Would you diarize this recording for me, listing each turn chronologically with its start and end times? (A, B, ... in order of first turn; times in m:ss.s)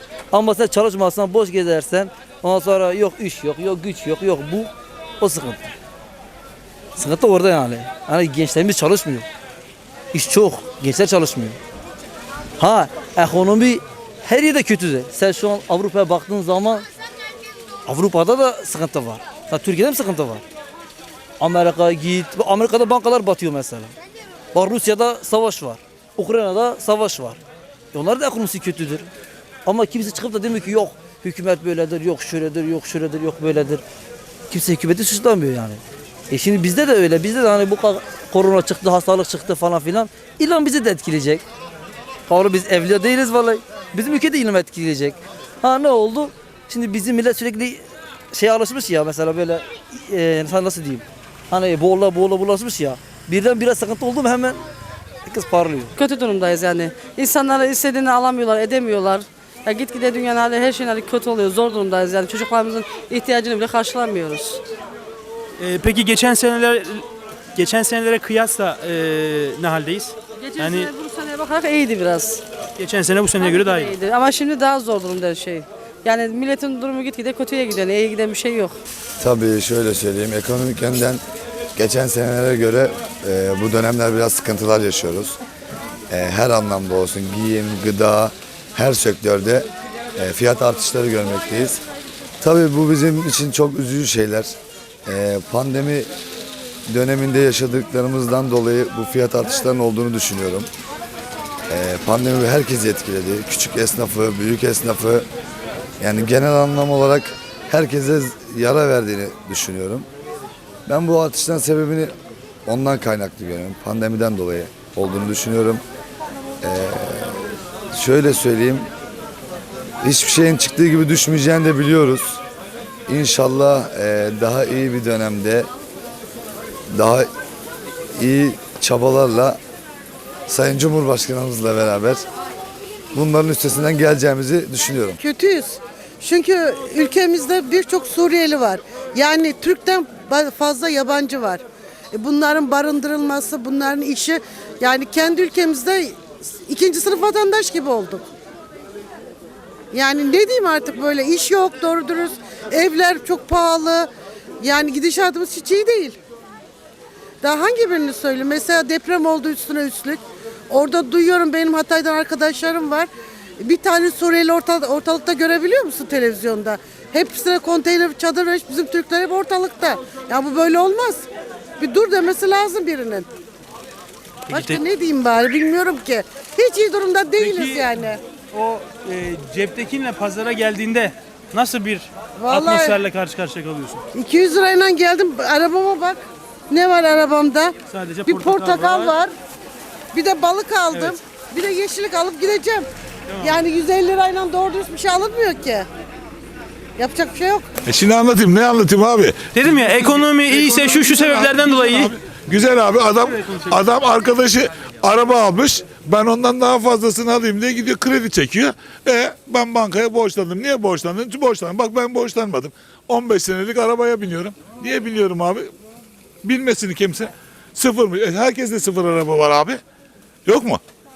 0:00.3-0:05.7 A
0:07.0-0:09.2 A
0:10.1-0:11.6 A
0:12.6-0:16.8 A
0:17.8-0:20.4 A
0:21.4-0:23.9 A
0:24.5-0:27.4 A
0:27.9-0:29.0 A
0:29.6-0:33.8 A
0:34.5-0:41.4 A
0:42.3-0:54.6 A
0:55.2-0:55.9 A
0:56.0-1:04.6 B
1:05.6-1:07.0 C
1:07.6-1:10.9 C
1:10.4-1:12.4 B
1:12.8-1:13.9 C
1:13.4-1:18.8 B
1:19.2-1:21.2 D
1:21.8-1:25.4 D
1:26.1-1:31.8 D
1:32.4-1:34.5 D
1:35.0-1:36.1 D
1:36.9-1:40.7 D
1:41.7-1:45.2 D
1:46.0-1:50.1 D
1:50.9-1:52.1 D
1:52.6-1:55.8 D
1:56.6-1:57.4 D
1:57.9-1:58.9 D
2:00.0-2:02.4 D
2:03.1-2:05.7 D
2:06.9-2:07.3 D
2:08.2-2:09.6 D
2:10.5-2:12.2 D
2:13.1-2:15.2 D
2:15.2-2:28.2 E
2:29.9-2:34.1 E
2:34.6-2:36.2 E
2:37.4-2:43.1 E
2:43.6-2:51.2 E
2:51.8-2:53.3 E
2:54.5-2:54.8 C
2:54.5-2:58.2 E
2:57.4-3:04.0 C
3:02.4-3:03.0 E
3:04.1-3:09.3 E
3:07.9-3:09.2 C
3:10.1-3:12.9 E
3:10.9-3:11.2 C
3:13.3-3:13.6 C
3:13.4-3:15.9 E
3:17.0-3:17.6 E
3:17.8-3:35.7 F
3:19.5-3:22.2 C
3:36.4-3:39.8 F
3:40.4-3:40.8 F